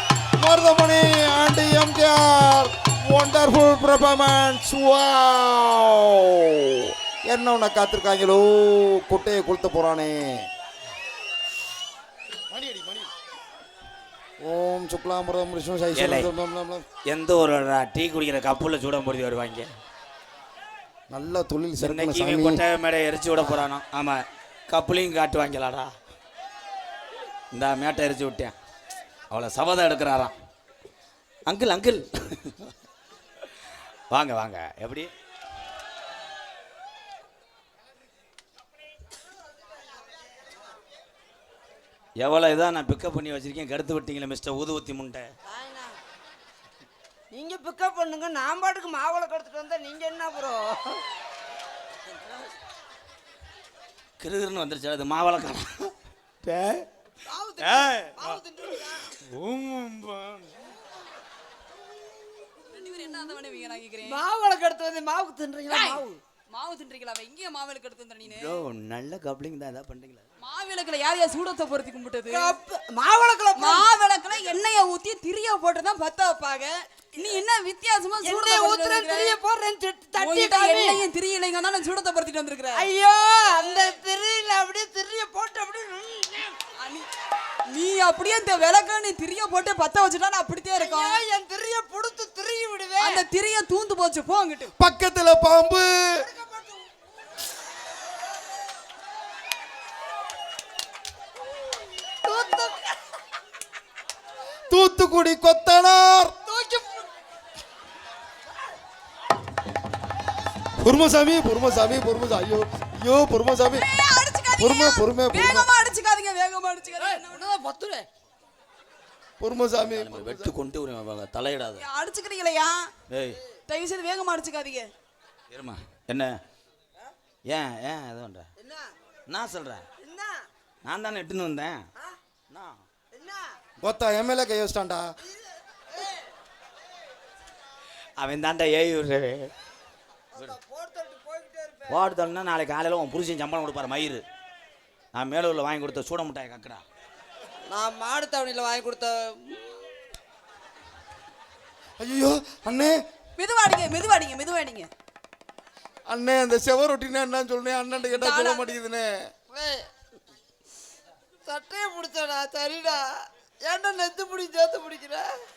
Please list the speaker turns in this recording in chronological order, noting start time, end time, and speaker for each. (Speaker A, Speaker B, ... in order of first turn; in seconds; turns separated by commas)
Speaker A: 0.4-10.5, Speaker A: 12.5-13.1, Speaker A: 14.4-16.9, Speaker B: 15.9-16.3, Speaker B: 17.1-19.7, Speaker A: 21.1-22.6, Speaker B: 21.8-25.9, Speaker B: 27.5-28.5, Speaker B: 29.3-30.3, Speaker B: 31.5-32.7, Speaker B: 34.1-35.1, Speaker B: 42.2-45.3, Speaker C: 45.5-45.9, Speaker C: 47.3-51.0, Speaker B: 54.2-55.9, Speaker B: 56.4-56.9, Speaker C: 57.2-59.1, Speaker B: 57.6-58.4, Speaker B: 59.0-60.6, Speaker D: 62.7-64.2, Speaker C: 64.0-66.2, Speaker D: 65.7-68.6, Speaker B: 68.2-70.2, Speaker D: 70.4-72.5, Speaker C: 72.3-73.9, Speaker D: 73.5-79.4, Speaker C: 78.2-81.0, Speaker D: 80.2-82.9, Speaker C: 82.7-86.6, Speaker D: 83.5-84.0, Speaker D: 86.8-87.1, Speaker D: 87.7-91.2, Speaker C: 90.8-93.2, Speaker D: 93.0-94.7, Speaker A: 94.8-96.2, Speaker C: 96.2-96.8, Speaker C: 102.2-102.9, Speaker A: 104.7-106.3, Speaker C: 106.5-107.1, Speaker A: 110.8-113.9, Speaker D: 113.7-117.4, Speaker A: 114.6-115.7, Speaker C: 117.0-118.1, Speaker A: 119.4-120.5, Speaker B: 119.8-121.8, Speaker D: 121.8-122.9, Speaker B: 123.1-123.4, Speaker D: 123.7-124.9, Speaker B: 125.5-126.3, Speaker B: 127.5-128.5, Speaker C: 128.6-128.9, Speaker B: 129.3-129.8, Speaker C: 130.0-130.4, Speaker B: 130.8-131.8, Speaker B: 132.5-132.8, Speaker C: 133.1-133.5, Speaker A: 133.8-135.1, Speaker C: 135.2-136.3, Speaker B: 138.2-139.5, Speaker C: 140.3-142.1, Speaker B: 141.9-144.2, Speaker B: 145.1-146.8, Speaker C: 147.7-149.8, Speaker A: 152.0-152.9, Speaker D: 153.4-154.9, Speaker A: 156.1-159.1, Speaker D: 158.1-158.7, Speaker C: 159.5-159.9, Speaker C: 161.4-163.1, Speaker C: 163.6-165.3